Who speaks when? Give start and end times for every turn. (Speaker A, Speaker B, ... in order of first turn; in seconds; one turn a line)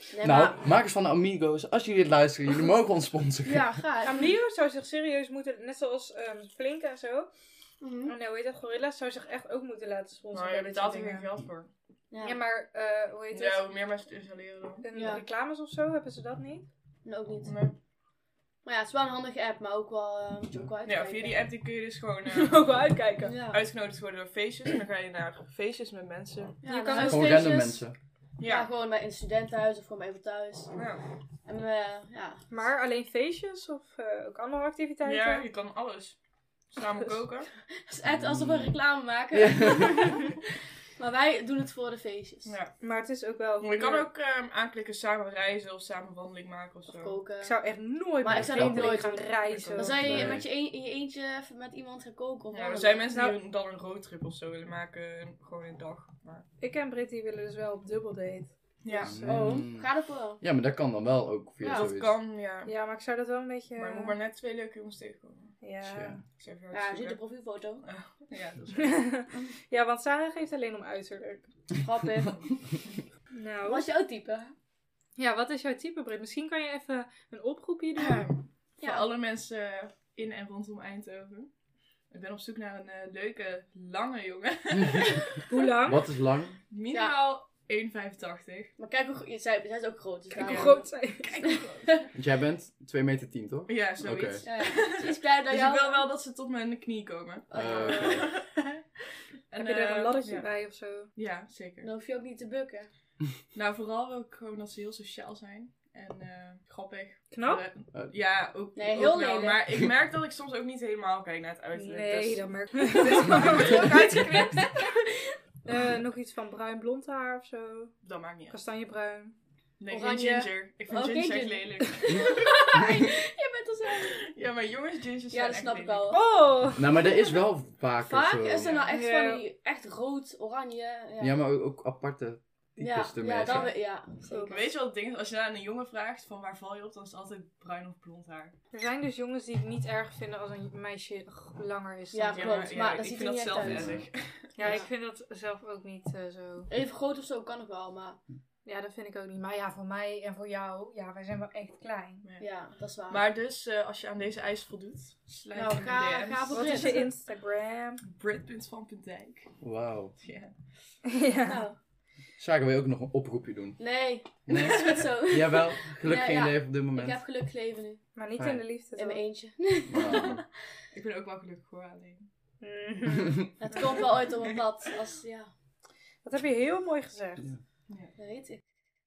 Speaker A: 0.1-0.6
Speaker B: 0.2-3.7
Speaker A: 3.4-4.3
Speaker C: 4.0-7.3
Speaker A: 7.8-8.1
Speaker C: 8.1-11.3
Speaker D: 10.3-11.7
Speaker A: 12.1-12.4
Speaker C: 12.2-13.6
Speaker D: 13.3-14.8
Speaker C: 14.8-16.7
Speaker A: 14.9-15.2
Speaker A: 17.0-17.5
Speaker D: 17.4-17.8
Speaker A: 18.6-21.4
Speaker D: 20.9-22.6
Speaker C: 22.3-23.4
Speaker A: 23.2-23.6
Speaker D: 23.5-26.6
Speaker A: 26.6-27.5
Speaker C: 26.6-27.8
Speaker B: 26.9-27.9
Speaker D: 28.4-28.7
Speaker A: 28.4-30.8
Speaker D: 30.8-31.0
Speaker A: 31.4-32.5
Speaker C: 32.5-35.5
Speaker D: 35.0-36.2
Speaker D: 36.7-37.5
Speaker A: 37.8-40.4
Speaker B: 38.0-38.8
Speaker B: 39.3-40.2
Speaker A: 41.0-42.5
Speaker D: 42.5-42.8
Speaker C: 42.8-44.1
Speaker D: 43.6-47.1
Speaker A: 46.9-47.6
Speaker C: 47.4-50.4
Speaker A: 48.2-53.1
Speaker B: 48.3-49.0
Speaker D: 49.5-50.1
Speaker B: 50.0-50.5
Speaker D: 52.5-56.5
Speaker C: 53.1-53.4
Speaker C: 56.6-58.5
Speaker D: 58.8-59.4
Speaker A: 58.9-60.4
Speaker B: 59.0-59.9
Speaker B: 60.4-62.1
Speaker A: 61.6-61.9
Speaker D: 61.7-62.7
Speaker C: 62.6-64.2
Speaker D: 63.8-65.6
Speaker C: 65.6-66.2
Speaker B: 65.8-66.2
Speaker D: 66.4-67.2
Speaker A: 66.7-67.8
Speaker D: 67.8-69.1
Speaker C: 68.8-71.5
Speaker A: 71.8-72.4
Speaker C: 73.3-73.9
Speaker A: 73.6-74.5
Speaker C: 75.2-78.2
Speaker D: 78.0-81.5
Speaker A: 78.8-79.1
Speaker D: 82.1-85.3
Speaker C: 85.5-86.0
Speaker B: 85.8-86.6
Speaker D: 86.7-88.7
Speaker A: 86.9-87.2
Speaker A: 88.8-90.9
Speaker C: 90.4-91.6
Speaker D: 90.4-92.1
Speaker A: 91.5-91.9
Speaker B: 92.1-94.4
Speaker D: 93.7-98.8
Speaker A: 94.4-96.0
Speaker A: 97.5-98.3
Speaker B: 97.5-98.3
Speaker D: 99.5-100.5
Speaker C: 99.6-101.1
Speaker D: 101.2-101.9
Speaker A: 101.8-102.9
Speaker D: 103.5-114.9
Speaker C: 107.3-107.6
Speaker A: 108.8-109.6
Speaker C: 111.8-115.0
Speaker C: 115.6-117.9
Speaker D: 118.0-118.6
Speaker C: 118.5-119.3
Speaker D: 119.8-122.8
Speaker A: 119.9-124.2
Speaker B: 122.1-123.0
Speaker D: 124.0-126.2
Speaker A: 125.3-126.2
Speaker C: 126.1-127.1
Speaker B: 126.8-128.8
Speaker A: 128.0-131.3
Speaker D: 128.6-128.9
Speaker C: 128.9-129.4
Speaker B: 131.2-133.7
Speaker A: 132.8-134.7
Speaker D: 133.5-133.7
Speaker C: 134.3-134.6
Speaker D: 134.5-138.5
Speaker C: 138.7-142.7
Speaker A: 142.1-144.0
Speaker D: 142.3-144.5
Speaker B: 143.6-144.1
Speaker C: 144.6-146.7
Speaker A: 144.6-144.9
Speaker A: 146.7-148.2
Speaker C: 148.6-152.2
Speaker A: 152.4-153.2
Speaker D: 153.1-156.9
Speaker A: 155.5-157.1
Speaker C: 156.0-158.0
Speaker D: 158.0-159.5
Speaker B: 159.6-160.1
Speaker D: 160.2-160.5
Speaker C: 161.1-161.6
Speaker A: 161.4-161.8
Speaker B: 162.4-163.8
Speaker A: 163.8-168.0
Speaker B: 164.5-167.2
Speaker D: 164.5-165.0
Speaker C: 168.2-169.2
Speaker A: 169.0-170.5
Speaker B: 169.9-170.4
Speaker D: 170.9-172.3
Speaker C: 172.6-173.4
Speaker A: 173.6-175.5
Speaker D: 173.8-174.6
Speaker C: 176.2-177.5
Speaker A: 178.2-178.6